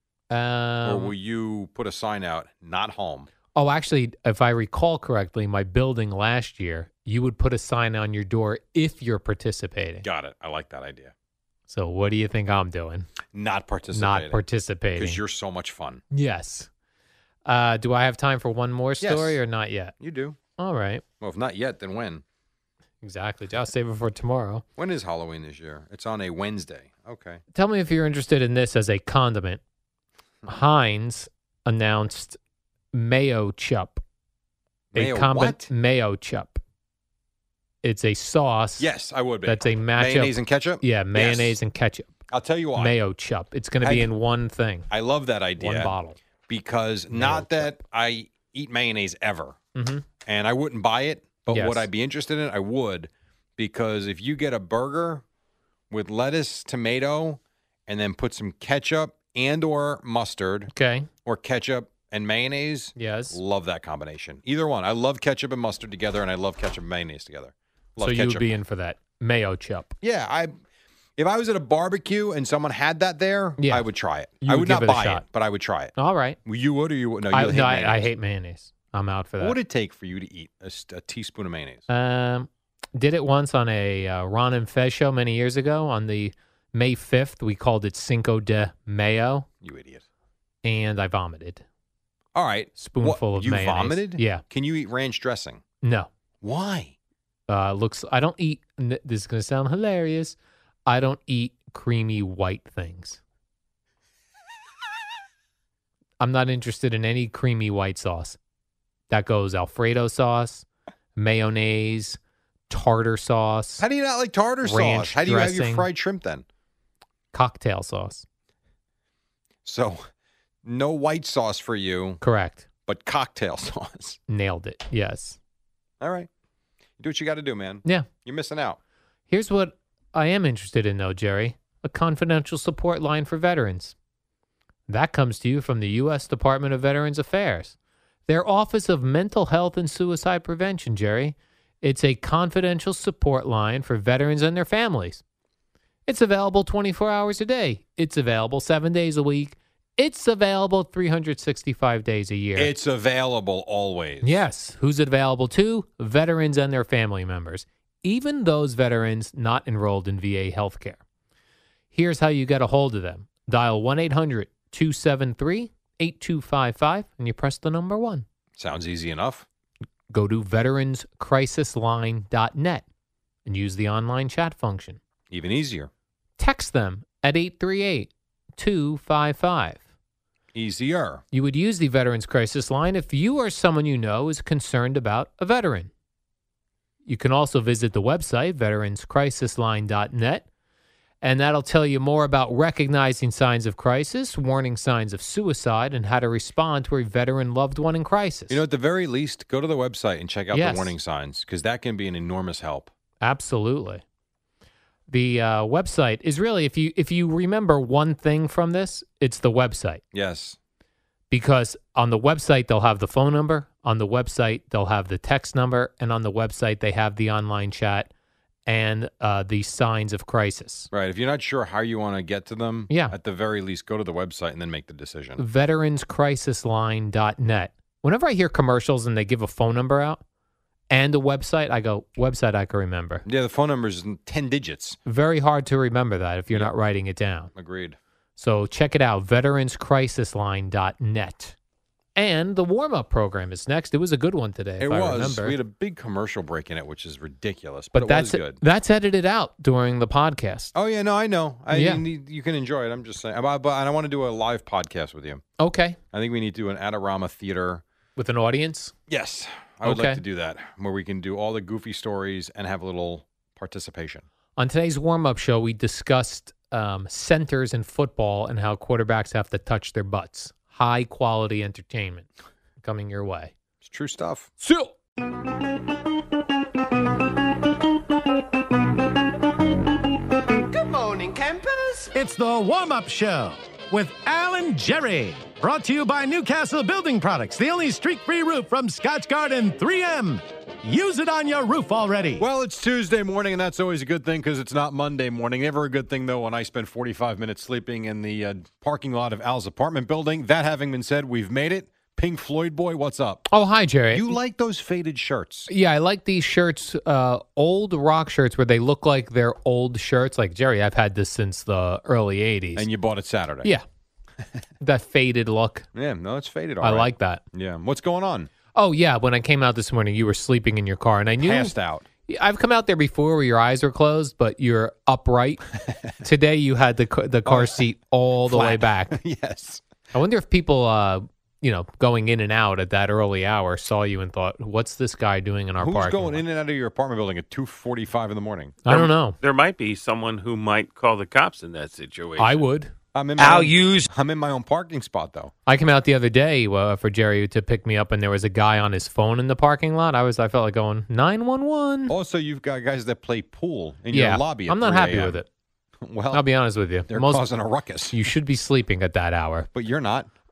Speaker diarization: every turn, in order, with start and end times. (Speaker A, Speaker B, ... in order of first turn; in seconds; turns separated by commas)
Speaker A: 0.3-1.1, Speaker B: 0.8-3.3, Speaker A: 3.5-10.1, Speaker B: 10.0-11.1, Speaker A: 11.7-13.1, Speaker B: 13.3-14.4, Speaker A: 13.9-15.2, Speaker B: 14.9-16.0, Speaker A: 16.1-16.7, Speaker A: 17.4-19.9, Speaker B: 19.0-19.4, Speaker B: 20.0-20.4, Speaker A: 20.6-21.0, Speaker B: 21.2-22.2, Speaker A: 23.0-24.6, Speaker B: 24.8-27.4, Speaker A: 27.5-29.6, Speaker A: 30.4-32.4, Speaker A: 32.9-34.0, Speaker B: 34.9-35.7, Speaker A: 34.9-36.6, Speaker A: 37.8-38.9, Speaker B: 38.8-41.6, Speaker A: 39.5-42.1, Speaker B: 42.3-42.9, Speaker A: 42.8-44.9, Speaker B: 43.8-44.1, Speaker B: 44.9-45.9, Speaker A: 45.6-46.2, Speaker B: 46.5-49.6, Speaker A: 47.1-47.7, Speaker A: 49.7-50.0, Speaker B: 50.2-55.2, Speaker A: 51.5-51.9, Speaker B: 55.9-60.7, Speaker A: 60.7-61.1, Speaker B: 61.2-68.5, Speaker A: 63.0-63.4, Speaker A: 68.0-69.9, Speaker B: 70.0-70.5, Speaker B: 71.2-78.1, Speaker A: 73.6-73.8, Speaker A: 74.4-75.2, Speaker A: 76.0-76.4, Speaker A: 77.3-79.6, Speaker B: 79.4-81.8, Speaker A: 81.9-89.5, Speaker B: 89.6-90.0, Speaker A: 90.6-91.6, Speaker B: 92.3-95.6, Speaker A: 92.8-94.4, Speaker A: 95.8-96.1, Speaker B: 96.4-96.9, Speaker A: 97.5-103.2, Speaker A: 106.2-108.4, Speaker A: 109.1-112.2, Speaker A: 112.7-113.8, Speaker B: 113.8-116.4, Speaker A: 114.6-115.9, Speaker A: 117.3-118.2, Speaker B: 119.6-120.0, Speaker B: 120.6-122.2, Speaker A: 122.2-122.6, Speaker B: 122.9-124.2, Speaker A: 124.3-125.4, Speaker B: 126.0-126.3, Speaker B: 127.0-128.8, Speaker A: 129.3-133.9, Speaker A: 134.9-137.7, Speaker A: 138.3-145.2, Speaker A: 146.1-152.7, Speaker B: 152.6-154.4, Speaker A: 154.2-161.0, Speaker A: 161.9-168.2, Speaker B: 168.6-169.4, Speaker A: 170.1-172.8, Speaker A: 173.4-175.0, Speaker B: 175.3-175.9, Speaker A: 176.4-179.8, Speaker B: 180.5-181.2, Speaker A: 181.3-185.9, Speaker A: 187.1-190.4, Speaker A: 191.2-198.6, Speaker B: 198.5-202.9, Speaker A: 200.5-200.9, Speaker A: 203.2-204.0, Speaker A: 205.1-210.0, Speaker B: 210.1-210.6, Speaker A: 211.3-218.1, Speaker A: 218.7-220.9, Speaker B: 220.9-225.4, Speaker A: 222.9-223.1, Speaker A: 225.4-230.2, Speaker A: 230.9-233.2, Speaker B: 233.2-235.0, Speaker A: 235.1-237.5, Speaker B: 237.5-238.0, Speaker A: 238.4-241.6, Speaker A: 242.1-245.6, Speaker B: 244.8-248.6, Speaker A: 247.9-250.7, Speaker B: 250.7-255.4, Speaker A: 251.7-252.0, Speaker A: 255.6-256.0, Speaker B: 256.1-257.8, Speaker A: 258.2-258.9, Speaker B: 259.1-264.2, Speaker A: 259.8-260.2, Speaker A: 264.6-272.3, Speaker A: 272.8-273.5, Speaker B: 273.8-274.5, Speaker A: 274.6-274.9, Speaker C: 280.5-282.1, Speaker D: 282.1-292.4, Speaker B: 292.4-303.5, Speaker A: 303.5-304.4, Speaker B: 304.1-305.7, Speaker A: 305.7-312.9, Speaker B: 312.8-313.7, Speaker A: 314.8-315.9, Speaker B: 315.9-318.5, Speaker A: 316.8-317.4, Speaker A: 318.7-321.7, Speaker B: 321.4-322.1, Speaker A: 322.3-325.6, Speaker A: 326.2-329.2, Speaker B: 327.4-327.8, Speaker B: 328.4-329.8, Speaker A: 330.1-336.4, Speaker B: 335.8-339.1, Speaker A: 338.9-339.4, Speaker C: 339.4-342.6, Speaker A: 342.4-342.9, Speaker B: 343.1-345.5, Speaker C: 343.4-344.1, Speaker A: 345.6-352.1, Speaker B: 352.1-355.4, Speaker A: 354.1-355.5, Speaker B: 356.0-356.4, Speaker A: 356.3-357.4, Speaker B: 357.1-358.2, Speaker A: 358.1-359.7, Speaker B: 359.7-360.3